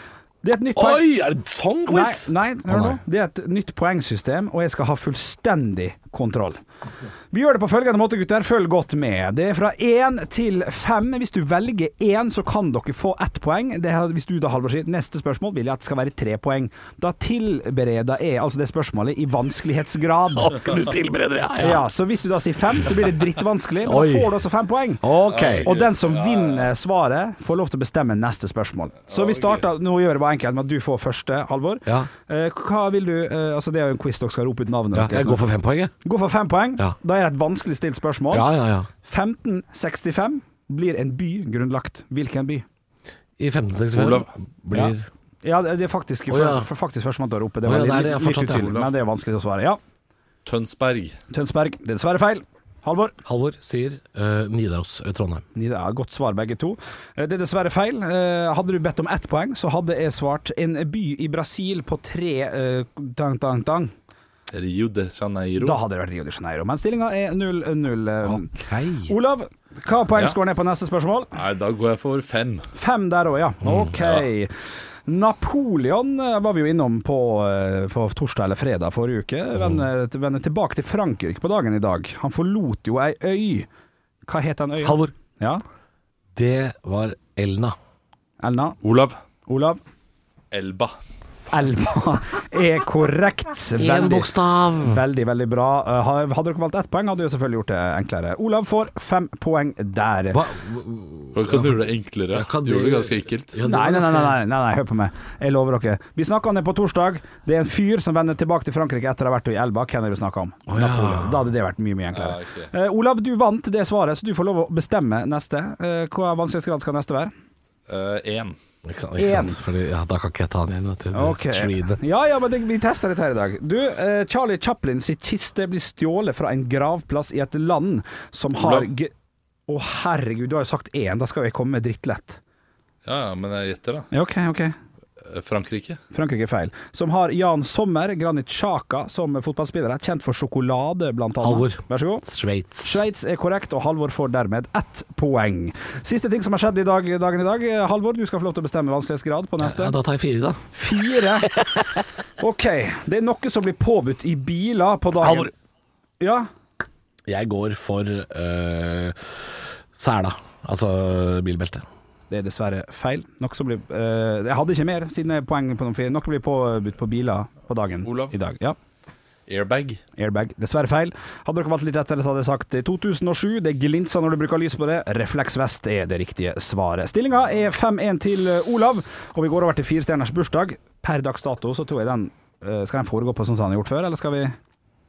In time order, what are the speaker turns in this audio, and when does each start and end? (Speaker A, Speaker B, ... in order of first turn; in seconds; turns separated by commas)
Speaker A: 0.4-1.1, Speaker B: 0.7-3.0, Speaker A: 1.9-6.6, Speaker A: 7.3-20.7, Speaker B: 20.3-21.9, Speaker A: 21.6-25.1, Speaker B: 23.8-24.3, Speaker B: 25.0-25.7, Speaker C: 25.3-26.7, Speaker A: 25.6-35.5, Speaker C: 29.1-29.6, Speaker B: 34.9-35.9, Speaker A: 36.0-38.5, Speaker B: 38.3-38.9, Speaker A: 39.0-42.6, Speaker B: 43.4-45.1, Speaker C: 43.9-44.3, Speaker A: 44.7-49.8, Speaker B: 46.3-46.7, Speaker B: 47.6-48.9, Speaker C: 50.4-51.1, Speaker A: 51.3-53.2, Speaker B: 53.2-55.4, Speaker A: 55.5-63.9, Speaker C: 64.5-65.8, Speaker A: 65.6-68.5, Speaker B: 68.2-69.1, Speaker A: 69.1-71.3, Speaker C: 71.3-72.7, Speaker A: 72.7-74.5, Speaker B: 73.6-73.9, Speaker C: 74.0-74.2, Speaker A: 75.0-83.7, Speaker B: 79.5-79.8, Speaker A: 84.3-85.6, Speaker B: 84.8-85.1, Speaker B: 86.3-87.8, Speaker A: 88.4-88.8, Speaker C: 88.8-89.2, Speaker A: 89.5-89.8, Speaker C: 90.5-90.9, Speaker A: 91.5-100.4, Speaker B: 93.8-95.0, Speaker B: 100.3-104.4, Speaker C: 101.3-103.6, Speaker A: 103.6-117.3, Speaker B: 110.7-111.5, Speaker C: 112.1-112.7, Speaker C: 117.9-118.5, Speaker B: 118.8-122.0, Speaker A: 119.2-119.6, Speaker A: 121.1-129.1, Speaker C: 128.6-128.9, Speaker A: 129.7-132.4, Speaker C: 133.0-134.1, Speaker A: 134.1-134.7, Speaker C: 135.2-136.0, Speaker A: 136.1-142.3, Speaker B: 141.4-143.0, Speaker A: 142.8-150.0, Speaker B: 149.6-150.6, Speaker A: 150.7-151.5, Speaker B: 151.5-151.8, Speaker A: 152.4-155.5, Speaker B: 155.2-155.5, Speaker A: 156.2-156.5, Speaker B: 157.3-159.2, Speaker B: 159.9-161.8, Speaker A: 162.3-168.8, Speaker C: 168.0-168.3, Speaker C: 169.5-170.0, Speaker A: 170.2-184.6